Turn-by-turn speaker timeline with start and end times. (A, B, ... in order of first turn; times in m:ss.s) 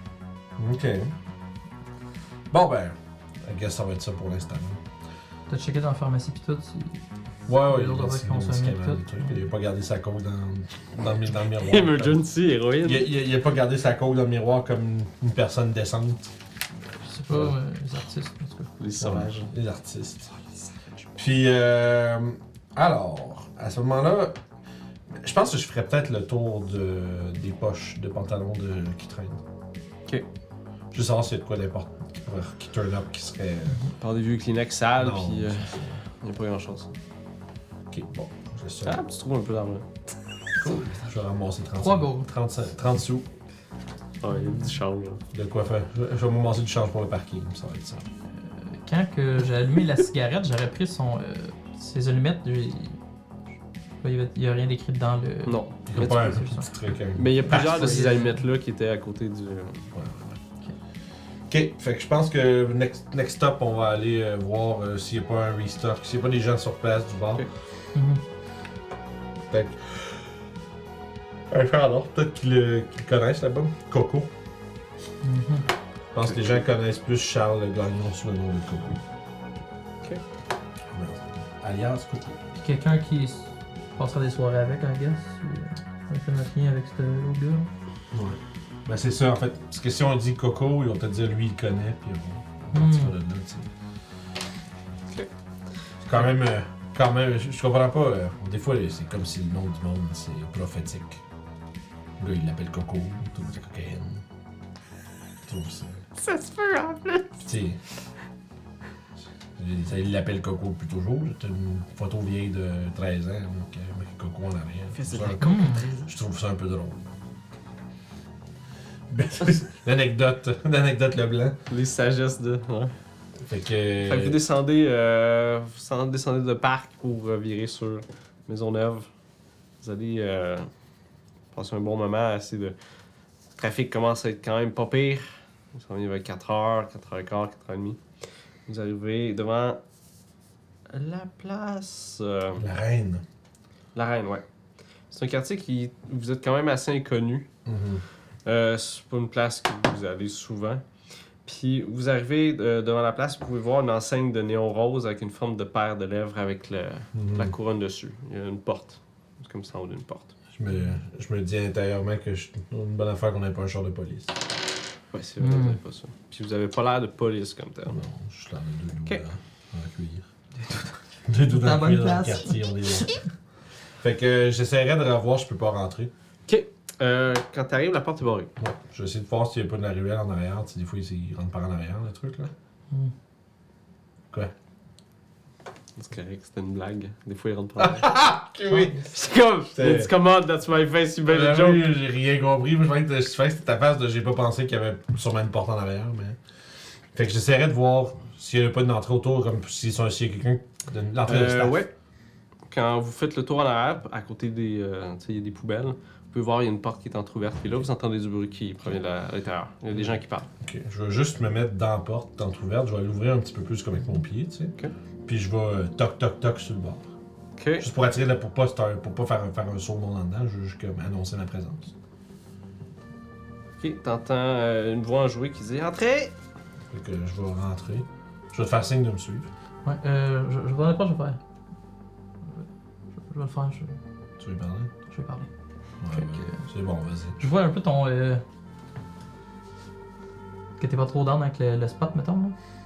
0:00.6-0:01.1 A
0:02.5-0:04.8 A
0:05.5-0:09.4 B
0:07.5-0:12.2 A
0:11.6-0:13.1 C
0:12.8-0:16.3 A
0:17.0-0:18.7 B
0:17.3-0:17.6 A
0:18.8-0:19.5 C
0:19.0-0:20.4 A
0:21.2-0:24.4 A
0:25.1-0:29.4 A
0:30.9-0:33.8 A
0:34.0-0:37.0 C
0:35.0-0:36.0 A
0:37.9-0:39.0 A
0:38.8-0:39.9 C
0:40.6-0:43.3 A
0:41.8-0:42.3 B
0:44.2-0:45.2 C
0:44.3-0:44.8 B
0:45.3-0:48.0 A
0:48.3-0:53.0 B
0:54.0-0:56.8 B
0:55.5-0:56.4 C
0:55.9-0:58.0 A
0:57.2-0:59.9 C
0:57.4-0:58.4 B
0:59.9-1:00.4 A
1:01.5-1:07.5 A
1:07.9-1:08.2 B
1:09.5-1:10.3 A
1:11.5-1:14.3 A
1:15.2-1:15.7 B
1:16.1-1:19.0 A
1:16.2-1:16.6 C
1:20.9-1:22.4 A
1:22.6-1:27.7 B
1:28.1-1:33.7 A
1:32.7-1:33.1 B
1:36.0-1:41.2 A
1:42.2-1:44.2 A
1:45.5-1:46.0 A
1:46.2-1:47.4 C
1:47.5-1:47.8 A
1:49.6-1:57.0 A
1:54.9-1:56.1 C
1:55.4-1:55.8 B
1:59.1-2:01.6 A
2:01.7-2:02.9 C
2:03.4-2:04.4 A
2:04.1-2:09.1 C
2:09.8-2:10.7 C
2:11.5-2:12.8 C
2:13.6-2:18.0 C
2:18.7-2:19.8 C
2:20.9-2:22.6 C
2:22.6-2:23.2 A
2:24.0-2:24.4 C
2:25.1-2:27.5 C
2:27.6-2:28.0 A
2:28.4-2:30.8 C
2:31.4-2:40.4 C
2:37.1-2:37.5 A
2:40.5-2:44.4 A
2:45.1-2:48.0 C
2:45.4-2:45.8 B
2:47.9-2:50.2 A
2:51.3-2:53.2 A
2:51.5-2:53.2 B
2:54.0-2:56.1 A
2:56.5-2:58.5 C
2:58.6-3:02.5 A
3:06.0-3:08.2 C
3:07.8-3:09.1 A
3:08.7-3:11.8 C
3:09.7-3:10.1 A
3:11.3-3:16.4 A
3:17.1-3:21.8 A
3:21.2-3:21.9 C
3:22.7-3:30.5 C
3:30.6-3:34.8 A
3:35.3-3:37.0 A
3:37.6-3:37.9 C
3:37.8-3:41.9 A
3:43.8-3:46.3 C
3:46.9-3:49.5 A
3:49.8-3:51.4 B
3:53.2-3:54.0 B
3:54.4-3:54.9 A
3:55.1-3:55.5 B
3:56.0-3:57.4 A
3:56.2-3:56.6 B
3:57.4-3:58.4 B
4:00.8-4:02.6 B